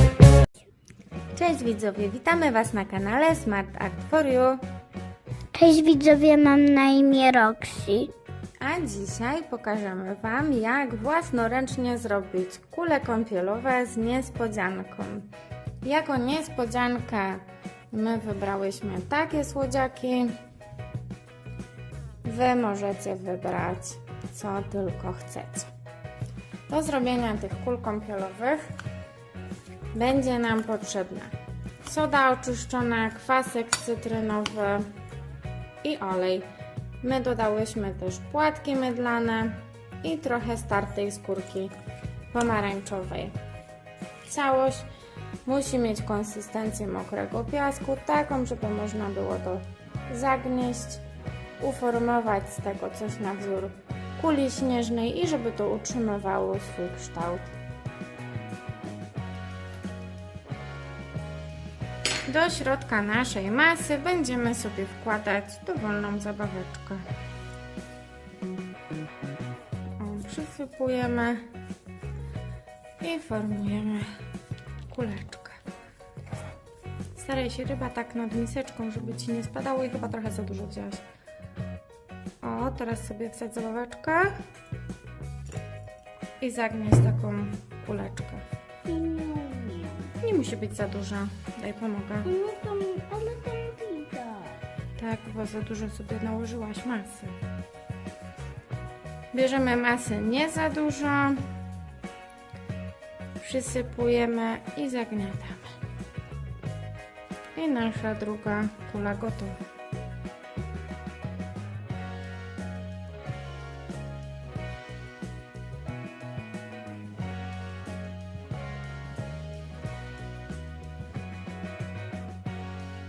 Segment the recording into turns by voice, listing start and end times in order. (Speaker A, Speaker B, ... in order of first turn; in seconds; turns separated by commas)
Speaker A: 1.3-4.6, Speaker B: 5.5-8.1, Speaker A: 8.6-15.3, Speaker A: 15.8-20.4, Speaker A: 22.2-25.7, Speaker A: 26.7-28.6, Speaker A: 29.9-34.9, Speaker A: 35.8-36.5, Speaker A: 37.0-41.7, Speaker A: 42.3-43.4, Speaker A: 44.2-44.9, Speaker A: 45.5-51.0, Speaker A: 51.6-57.5, Speaker A: 62.3-67.1, Speaker A: 70.0-71.5, Speaker A: 73.0-74.2, Speaker A: 74.9-75.6, Speaker A: 77.2-81.0, Speaker A: 82.4-84.3, Speaker A: 86.4-88.5, Speaker B: 88.9-90.1, Speaker A: 90.2-92.3, Speaker B: 92.3-94.6, Speaker A: 95.0-97.4, Speaker A: 99.3-101.4, Speaker A: 103.4-105.8, Speaker A: 107.5-109.6